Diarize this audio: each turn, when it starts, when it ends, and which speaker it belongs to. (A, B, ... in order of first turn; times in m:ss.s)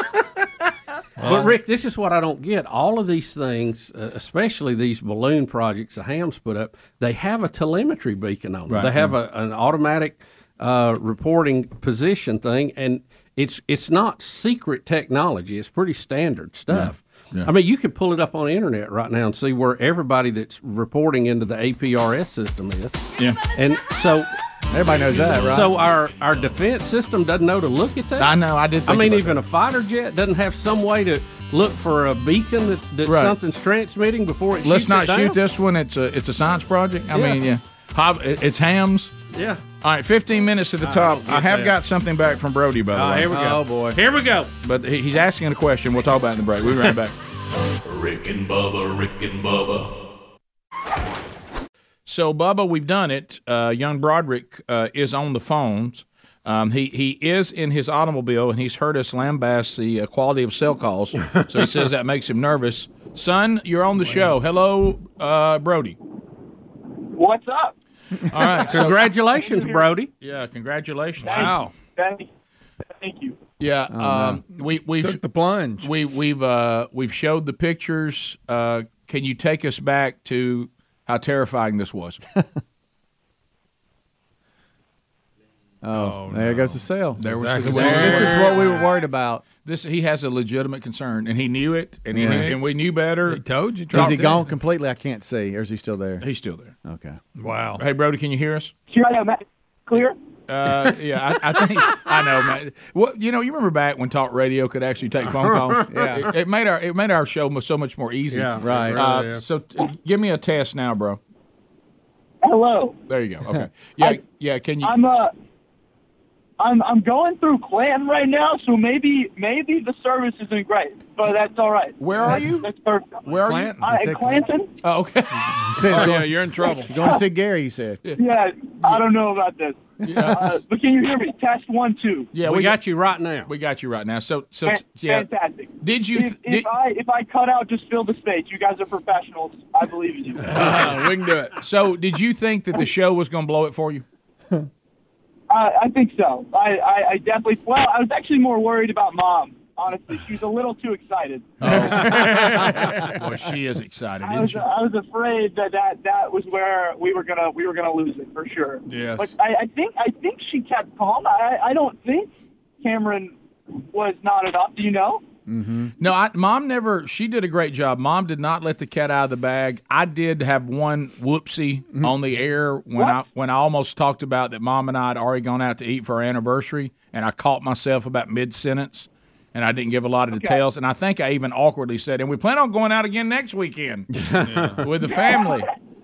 0:01.2-0:01.5 A
0:01.2-0:23.0 B
0:08.7-0:09.1 C
0:16.7-0:17.5 C
0:23.5-0:24.3 B
0:24.7-0:25.7 D
0:25.1-0:28.3 B
0:28.2-0:29.4 C
0:28.8-0:35.4 B
0:33.0-0:33.3 C
0:34.6-0:39.1 C
0:37.1-0:37.4 B
0:39.3-0:39.6 B
0:39.8-0:43.3 C
0:40.8-0:41.7 B
0:42.9-0:44.5 B
0:43.3-0:44.0 D
0:44.6-0:47.1 C
0:47.8-0:49.9 E
0:52.0-1:06.0 C
1:07.1-1:07.7 F
1:08.3-1:09.1 C
1:08.4-1:09.9 F
1:08.7-1:10.1 B
1:10.2-1:11.5 C
1:11.2-1:12.3 F
1:11.2-1:11.7 A
1:13.0-1:13.4 F
1:13.6-1:15.2 C
1:13.9-1:14.4 D
1:15.0-1:15.9 A
1:15.8-1:22.2 C
1:25.8-1:29.4 D
1:25.9-1:28.8 A
1:27.3-1:28.6 C
1:29.6-1:34.4 C
1:32.1-1:32.5 D
1:32.1-1:32.6 A
1:33.2-1:34.4 A
1:33.9-1:36.2 D
1:36.2-1:36.7 C
1:36.8-1:37.2 D
1:37.4-1:37.8 A
1:37.8-1:38.7 C
1:38.9-1:40.2 F
1:40.5-1:51.2 C
1:45.4-1:45.9 B
1:45.9-1:46.3 D
1:48.3-1:49.4 B
1:48.6-1:49.0 D
1:52.4-1:53.0 F
1:53.1-1:55.0 C
1:54.8-1:55.3 F
1:56.6-2:04.7 F
2:02.0-2:02.7 C
2:03.2-2:03.8 C
2:03.8-2:04.5 D
2:04.8-2:06.2 C
2:05.7-2:08.0 D
2:05.8-2:06.9 A
2:06.7-2:07.2 F
2:08.2-2:12.3 F
2:10.0-2:10.6 C
2:12.3-2:12.8 C
2:12.4-2:13.5 B
2:13.4-2:15.3 C
2:14.6-2:21.0 F
2:15.8-2:16.7 C
2:20.4-2:21.6 A
2:20.6-2:20.9 C
2:21.6-2:24.0 C
2:25.5-2:31.6 F
2:31.6-2:34.7 C
2:31.7-2:33.2 A
2:34.2-2:43.3 F
2:38.9-2:39.3 A
2:43.9-2:45.2 F
2:45.5-2:45.9 D
2:46.0-3:05.7 C
2:52.9-2:53.2 F
3:00.3-3:00.6 F
3:04.4-3:04.7 B
3:04.4-3:04.8 A
3:05.0-3:05.7 F